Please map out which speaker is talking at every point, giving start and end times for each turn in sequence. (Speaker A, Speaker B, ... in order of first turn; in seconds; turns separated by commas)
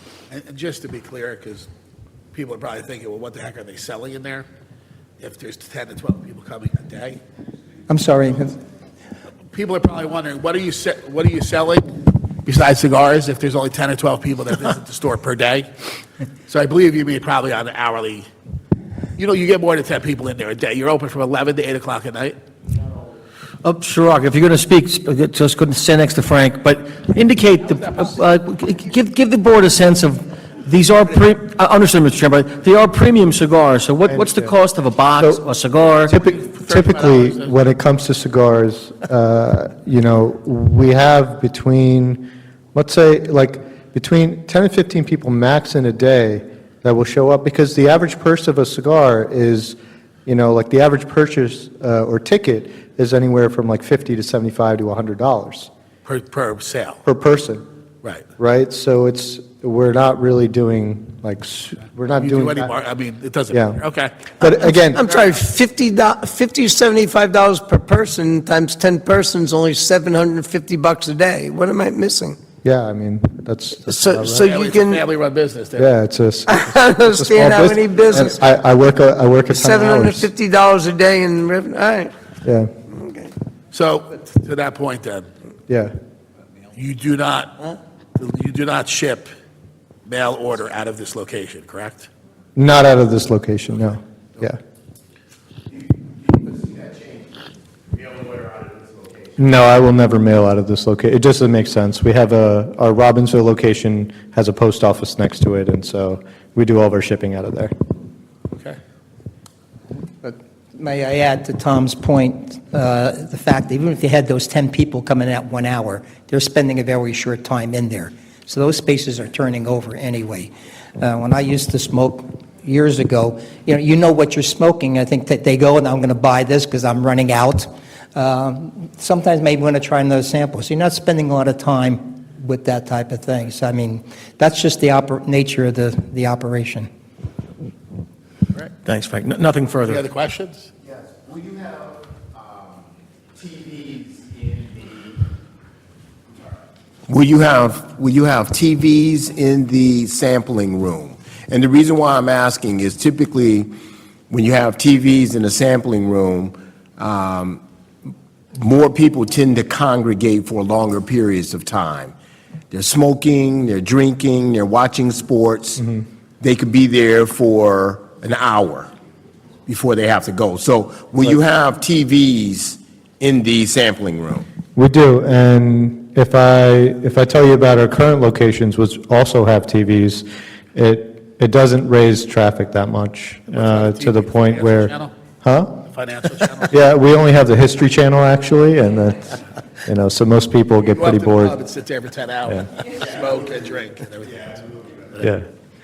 Speaker A: 0.3-1.7, Speaker A: 2.3-4.5, Speaker A: 5.2-7.2, Speaker B: 7.9-8.6, Speaker A: 9.5-15.8, Speaker A: 16.5-18.3, Speaker A: 19.2-22.4, Speaker C: 23.6-36.1, Speaker D: 34.1-34.3, Speaker D: 36.0-55.7, Speaker A: 36.2-37.5, Speaker A: 56.0-57.0, Speaker D: 57.0-57.6, Speaker D: 58.4-62.7, Speaker A: 62.1-64.4, Speaker D: 63.5-63.8, Speaker D: 64.3-65.0, Speaker E: 65.0-72.4, Speaker A: 65.0-65.3, Speaker D: 72.6-74.5, Speaker E: 73.9-75.0, Speaker A: 74.4-75.9, Speaker D: 75.8-80.3, Speaker E: 76.5-78.4, Speaker E: 79.5-82.1, Speaker D: 82.4-82.7, Speaker E: 82.9-83.3, Speaker A: 83.7-85.3, Speaker D: 85.7-85.9, Speaker A: 86.7-89.3, Speaker A: 90.0-92.1, Speaker D: 92.5-94.6, Speaker D: 99.4-107.7, Speaker A: 108.5-108.8, Speaker B: 110.2-136.9, Speaker C: 138.8-140.0, Speaker A: 139.8-140.7, Speaker F: 141.1-142.0, Speaker F: 143.4-144.9, Speaker F: 147.1-153.7, Speaker F: 154.3-157.6, Speaker F: 158.5-162.1, Speaker F: 162.7-168.9, Speaker F: 169.7-174.4, Speaker D: 174.7-185.8, Speaker A: 183.5-185.1, Speaker A: 185.8-186.8, Speaker D: 186.7-191.6, Speaker A: 190.8-195.2, Speaker D: 195.2-195.5